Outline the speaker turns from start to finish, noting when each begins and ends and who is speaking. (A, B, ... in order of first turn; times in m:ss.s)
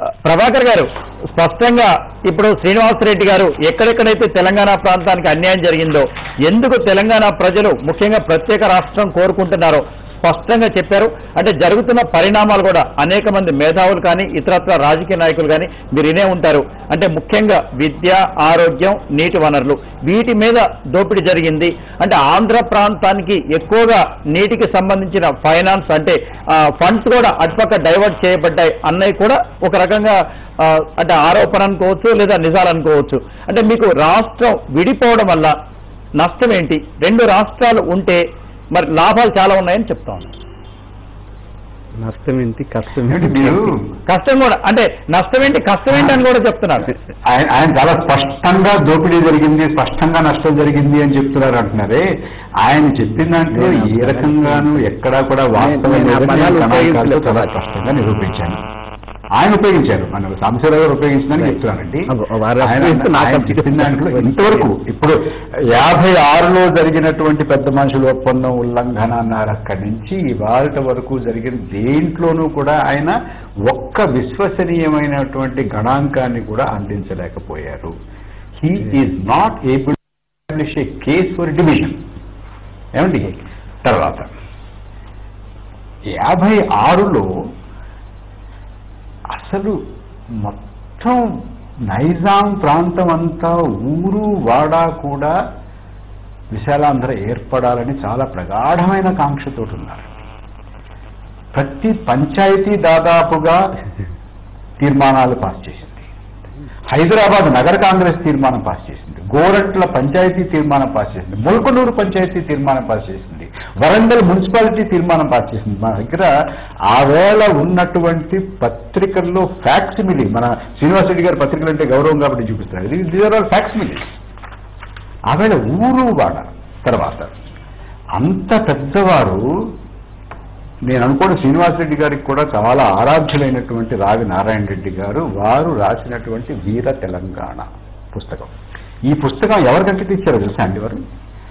0:00.2-0:35.6 A
0:36.2-0:40.3 A
0:42.0-0:43.8 B
0:43.1-0:43.8 C
0:44.1-0:46.9 A
0:47.3-0:52.1 C
0:52.6-0:58.6 C
0:53.5-0:54.9 B
0:55.6-0:57.5 B
0:59.4-1:05.2 C
1:02.1-1:04.7 B
1:05.7-1:13.2 C
1:13.7-1:17.9 C
1:18.6-1:22.0 C
1:23.0-1:24.3 C
1:26.1-1:27.3 C
1:29.3-1:29.8 C
1:30.3-1:35.4 C
1:36.5-1:40.1 C
1:41.5-1:43.6 C
1:44.8-1:46.1 C
1:46.9-1:56.3 C
1:56.9-2:04.0 C
2:05.3-2:07.3 C
2:08.2-2:09.4 C
2:10.9-2:18.5 C
2:19.1-2:21.0 C